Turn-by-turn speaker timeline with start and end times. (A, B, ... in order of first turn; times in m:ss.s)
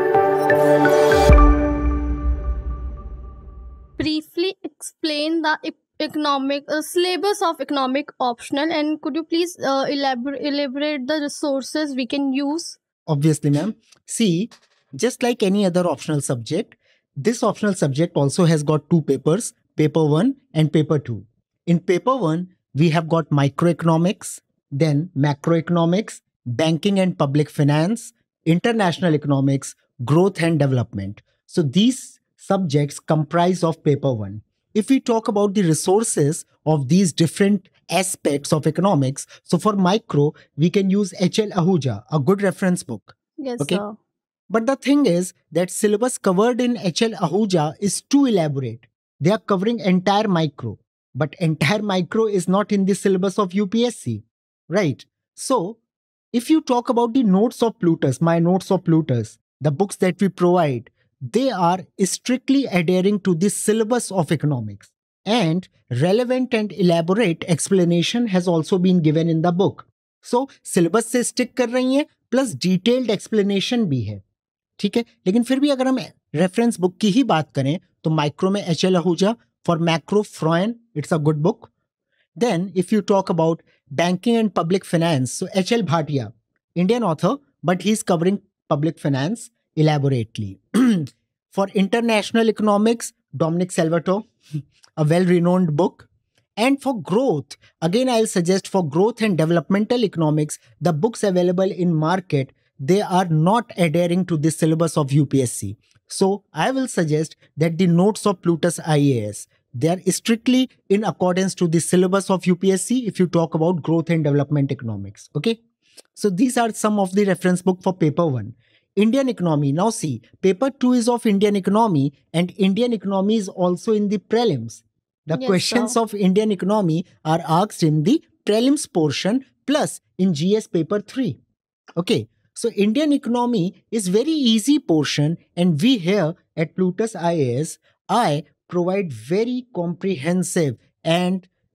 0:04.0-0:12.8 A
0:13.0-0:43.8 B
0:43.4-0:44.0 A
0:44.5-0:55.8 B
0:56.3-1:14.2 B
1:14.8-1:21.7 B
1:22.4-1:34.3 B
1:35.0-1:55.6 B
1:56.1-2:11.4 B
2:05.3-2:06.0 A
2:12.0-2:21.5 B